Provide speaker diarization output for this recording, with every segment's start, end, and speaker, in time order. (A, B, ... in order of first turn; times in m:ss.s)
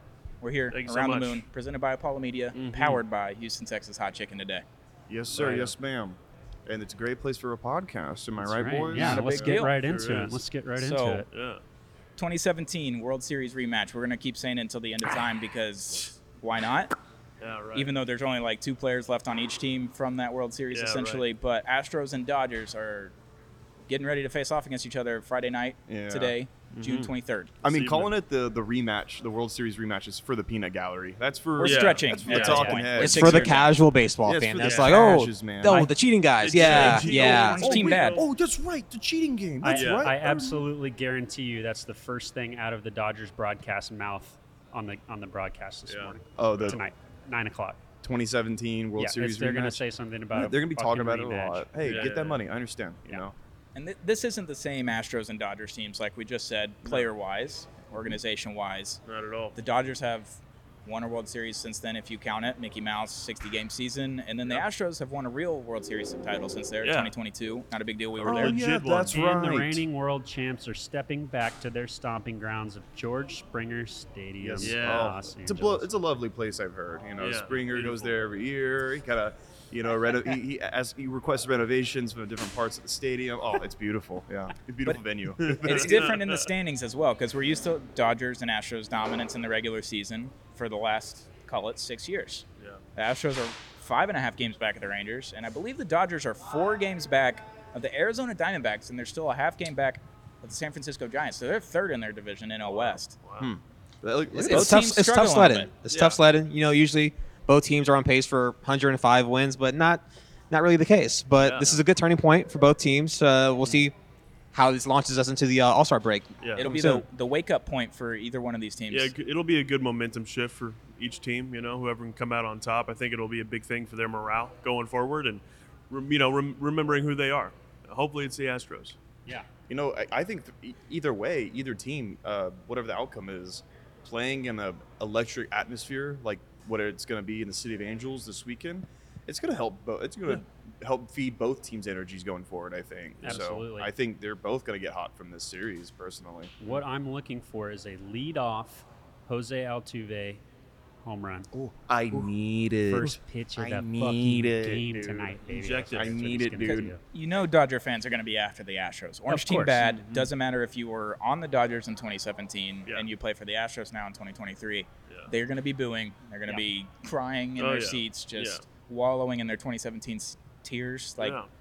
0:00.4-0:04.6 A
0:00.7-0:01.4 B
0:02.5-0:03.0 B
0:05.1-0:09.6 C
0:05.3-0:05.8 B
0:08.4-0:11.3 D
0:08.9-0:09.7 A
0:09.6-0:10.4 B
0:10.8-0:11.2 A
0:11.3-0:11.6 B
0:12.2-0:16.9 A
0:17.4-0:17.9 B
0:17.8-0:23.1 A
0:20.7-0:21.3 B
0:23.9-0:27.5 A
0:25.9-0:26.4 C
0:26.7-0:27.1 B
0:27.6-0:33.6 C
0:27.6-0:28.1 B
0:31.6-0:33.8 A
0:31.6-0:32.7 B
0:32.4-0:33.0 D
0:33.0-0:37.6 E
0:34.2-0:35.9 C
0:34.6-0:35.1 B
0:35.7-0:38.3 B
0:36.6-0:40.6 C
0:36.8-0:38.2 A
0:39.6-0:47.8 D
0:39.7-0:40.1 B
0:45.9-0:46.8 B
0:46.4-0:46.8 C
0:48.0-0:53.4 C
0:49.0-0:52.1 D
0:51.8-0:52.4 B
0:53.8-0:59.0 A
0:59.1-0:59.6 B
0:59.6-1:08.6 A
1:06.8-1:07.1 B
1:08.2-1:09.8 C
1:08.2-1:09.4 B
1:09.1-1:15.9 D
1:14.4-1:26.1 C
1:14.6-1:15.2 B
1:17.2-1:18.2 B
1:25.5-1:26.5 B
1:25.6-1:32.4 A
1:33.0-1:43.2 A
1:42.6-1:43.5 B
1:43.4-1:44.9 C
1:44.3-1:53.9 E
1:44.4-1:45.7 A
1:45.9-1:46.2 B
1:51.4-1:51.8 B
1:54.5-1:57.0 E
1:56.4-1:56.7 B
1:56.6-1:59.1 A
1:58.9-2:09.0 B
2:09.7-2:26.5 C
2:23.2-2:23.9 D
2:26.6-2:30.4 D
2:31.0-2:31.5 D
2:31.5-2:36.9 C
2:32.9-2:37.0 D
2:35.5-2:36.2 B
2:36.6-2:51.4 A
2:39.3-2:39.8 D
2:39.8-2:40.3 B
2:47.6-2:48.6 B
2:51.2-2:51.5 B